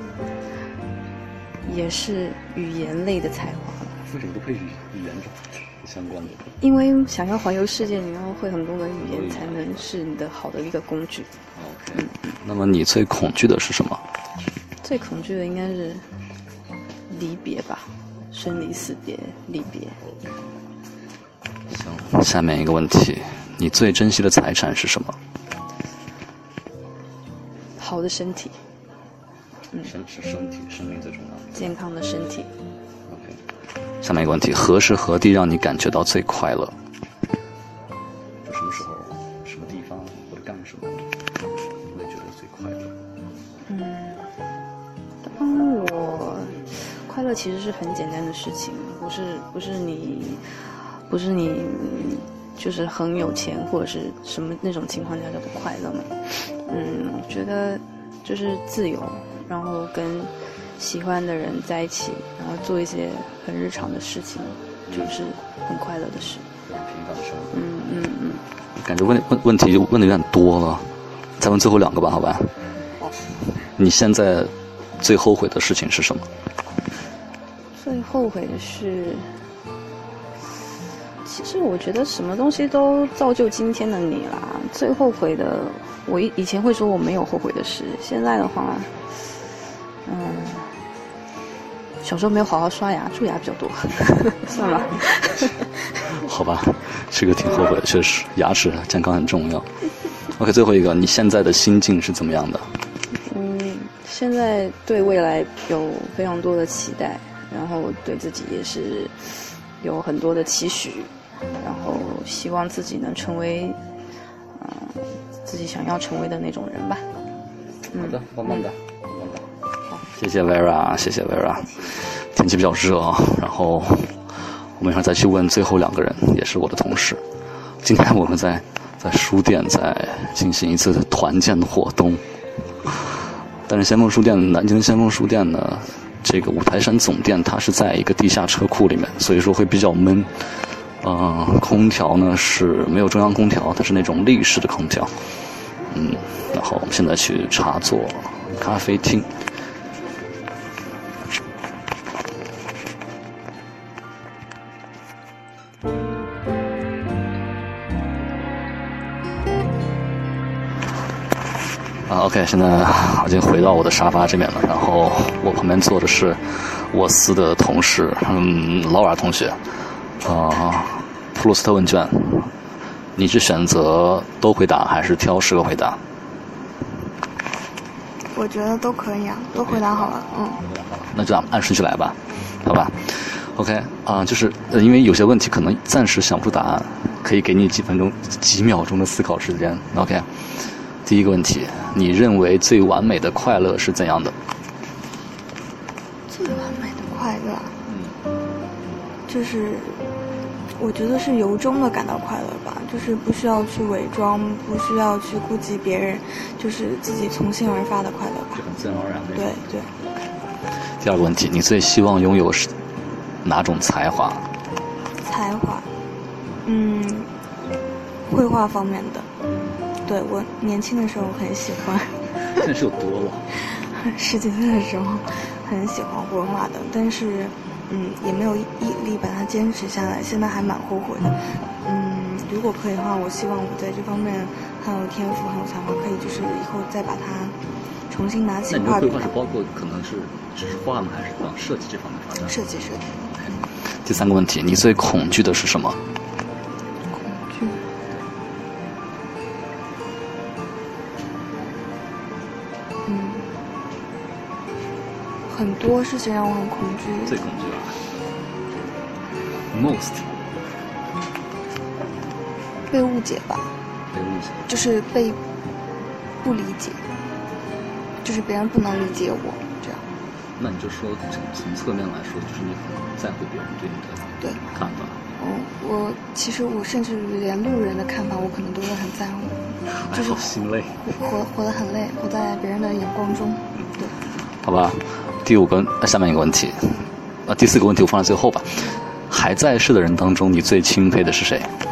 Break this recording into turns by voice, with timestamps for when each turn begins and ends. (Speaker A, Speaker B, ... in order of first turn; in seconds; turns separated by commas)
Speaker A: 1.6-4.0, Speaker B: 4.0-6.5, Speaker A: 6.6-11.3, Speaker B: 9.0-9.9, Speaker B: 11.5-14.0, Speaker A: 12.0-12.2, Speaker A: 14.8-16.1, Speaker A: 17.1-20.0, Speaker B: 20.0-20.3, Speaker B: 21.7-25.2, Speaker A: 27.8-28.6, Speaker B: 29.8-31.7, Speaker A: 31.6-32.5, Speaker B: 33.1-33.4, Speaker B: 34.0-36.8, Speaker B: 38.4-41.1, Speaker B: 41.9-43.0, Speaker A: 43.7-44.2, Speaker A: 45.2-50.4, Speaker A: 51.1-66.5, Speaker B: 64.9-65.2, Speaker B: 66.7-67.6, Speaker A: 67.5-68.4, Speaker B: 68.8-72.6, Speaker B: 73.6-76.3, Speaker A: 77.8-79.3, Speaker A: 81.2-88.9, Speaker A: 90.0-90.8, Speaker A: 92.0-95.7, Speaker B: 96.1-99.7, Speaker B: 100.3-102.7, Speaker A: 103.3-113.8, Speaker A: 114.6-117.1, Speaker A: 117.9-118.2, Speaker B: 117.9-119.5, Speaker B: 120.1-127.2, Speaker B: 127.8-132.2, Speaker B: 132.8-145.1, Speaker B: 145.9-149.4, Speaker B: 162.1-172.5, Speaker B: 173.2-176.0, Speaker C: 178.3-180.6, Speaker B: 179.5-194.4, Speaker C: 196.3-197.8, Speaker B: 197.9-198.2, Speaker C: 199.3-200.0, Speaker C: 200.8-208.6, Speaker B: 208.5-210.1, Speaker C: 209.3-209.9, Speaker B: 211.0-212.7, Speaker B: 213.4-214.5, Speaker C: 215.2-215.9, Speaker C: 216.6-217.3, Speaker C: 218.3-219.3, Speaker C: 220.1-222.6, Speaker B: 222.5-223.5, Speaker C: 223.7-237.6, Speaker C: 238.1-239.3, Speaker B: 238.7-242.6, Speaker C: 242.4-243.6, Speaker B: 244.0-246.0, Speaker C: 247.1-247.8, Speaker C: 253.1-253.5, Speaker C: 255.5-257.5, Speaker B: 257.2-258.1, Speaker B: 259.5-260.4, Speaker C: 262.9-263.7, Speaker B: 264.1-264.7, Speaker C: 264.7-265.4, Speaker C: 266.4-267.0, Speaker C: 268.2-270.1, Speaker B: 270.6-275.2, Speaker C: 275.4-280.5, Speaker B: 279.9-281.1, Speaker C: 281.0-284.2, Speaker B: 284.5-291.7